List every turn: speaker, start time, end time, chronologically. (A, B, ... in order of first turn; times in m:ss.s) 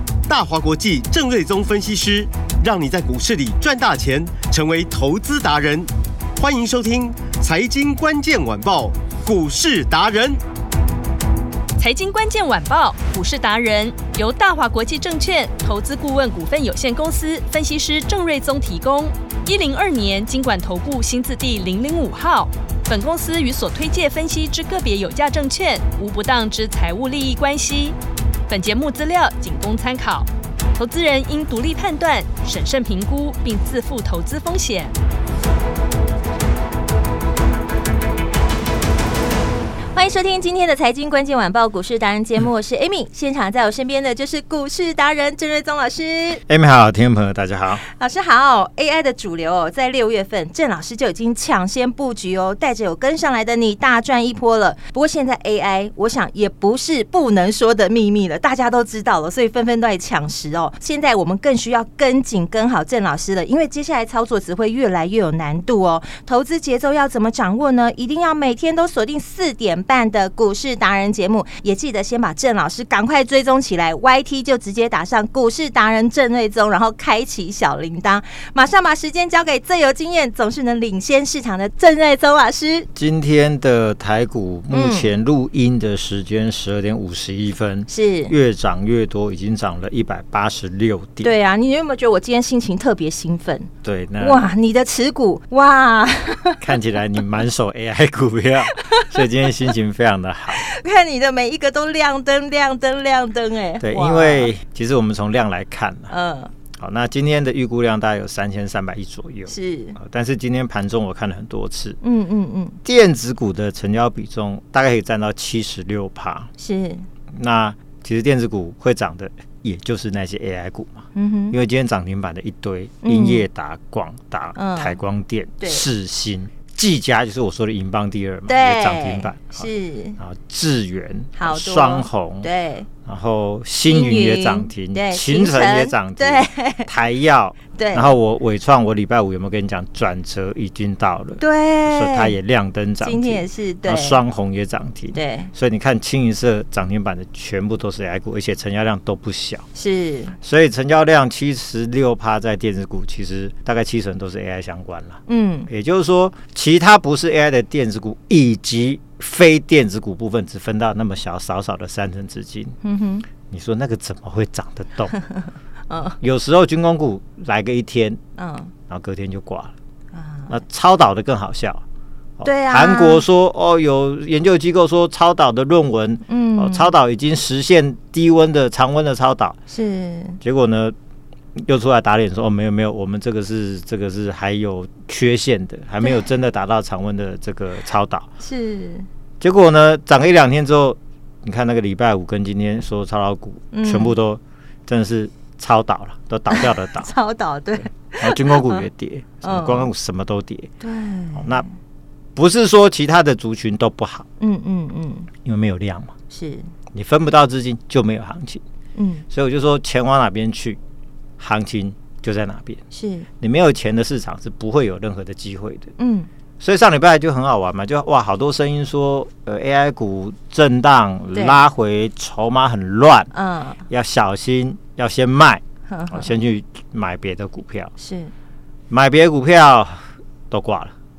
0:00.3-0:10.4 A
0:11.8-0:28.0 B
0:28.5-0:34.9 B
0:39.9-0:46.4 C
0:46.5-0:47.8 D
0:47.8-1:22.9 C
1:23.0-1:31.3 D
1:24.7-1:25.1 C
1:27.9-1:28.4 C
1:31.2-1:36.6 C
1:33.8-1:34.5 D
1:36.6-1:40.6 D
1:38.8-1:39.2 C
1:40.6-1:44.5 C
1:43.8-1:46.1 D
1:46.1-1:46.5 C
1:46.8-1:52.0 D
1:49.5-1:50.0 C
1:52.0-1:52.8 C
1:52.8-1:56.5 D
1:56.6-1:57.1 C
1:57.3-2:09.7 D
2:01.2-2:01.6 C
2:03.0-2:03.5 C
2:04.6-2:05.0 C
2:05.6-2:05.9 C
2:08.5-2:10.2 C
2:10.2-2:12.5 D
2:11.4-2:12.9 C
2:13.1-2:29.6 D
2:13.9-2:16.9 C
2:17.8-2:18.2 C
2:21.4-2:22.4 C
2:23.0-2:24.2 C
2:25.1-2:25.5 C
2:29.8-2:30.4 C
2:30.4-2:42.8 D
2:35.3-2:35.7 C
2:42.8-2:43.3 C
2:43.5-2:45.1 D
2:45.9-2:46.2 C
2:46.2-2:48.2 D
2:48.4-2:48.7 C
2:48.9-2:49.7 D
2:50.1-2:50.5 C
2:50.5-2:51.8 D
2:52.4-2:59.6 D
2:52.4-2:53.2 C
2:56.3-2:56.9 C
2:59.7-3:00.4 C
3:00.4-3:01.0 D
3:01.6-3:08.3 D
3:08.4-3:09.1 C
3:09.4-3:17.1 D
3:13.7-3:14.2 C
3:16.5-3:18.8 C
3:18.2-3:20.7 D
3:19.4-3:19.9 C
3:20.8-3:21.6 C
3:21.4-3:21.7 D
3:22.4-3:24.3 D
3:24.4-3:25.3 C
3:25.4-3:26.1 D
3:26.3-3:26.7 C
3:26.9-3:28.6 D
3:29.0-3:29.2 C
3:29.3-3:30.8 D
3:31.4-3:32.8 D
3:32.9-3:33.3 C
3:33.4-3:35.9 D
3:36.0-3:36.3 C
3:36.6-3:43.3 D
3:41.3-3:41.6 C
3:43.3-3:43.8 C
3:43.9-3:47.9 D
3:45.9-3:46.3 C
3:48.0-3:48.3 C
3:48.9-3:50.9 D